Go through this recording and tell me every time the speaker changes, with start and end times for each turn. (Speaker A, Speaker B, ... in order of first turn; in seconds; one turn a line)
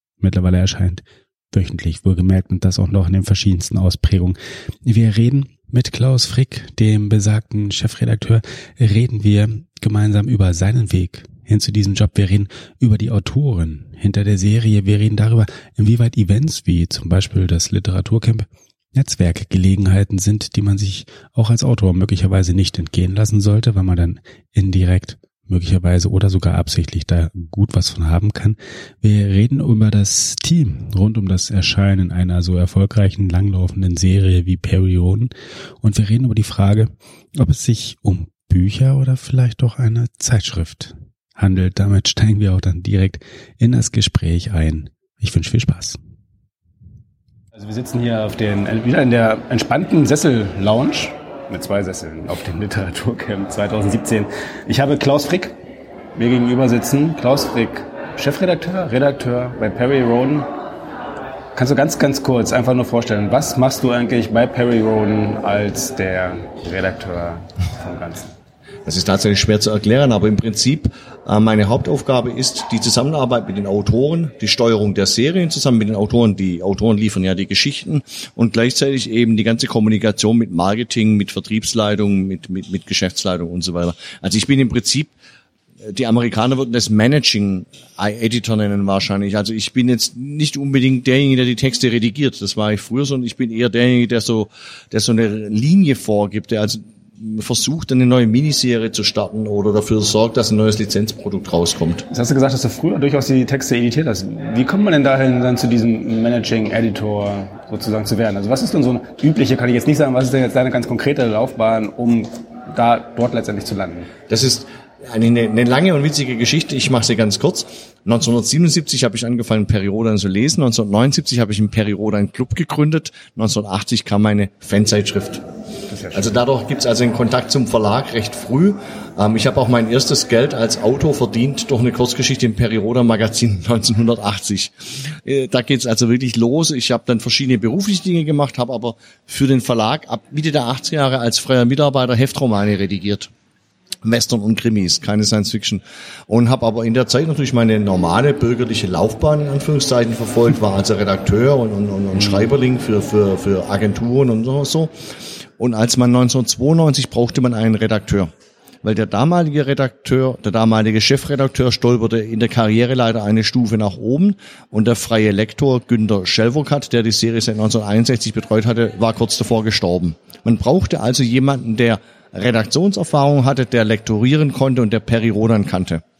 Speaker A: 0.2-35.3
Speaker A: 35.8-46.0
Speaker B: 47.5-55.5
Speaker B: 56.1-60.5
Speaker B: 61.5-68.3
Speaker C: 68.8-85.1
Speaker C: 85.8-102.0
Speaker B: 102.1-114.1
Speaker C: 114.3-125.4
Speaker B: 125.9-126.3
Speaker C: 126.1-143.3
Speaker C: 144.0-154.9
Speaker C: 155.6-158.3
Speaker C: 158.8-176.0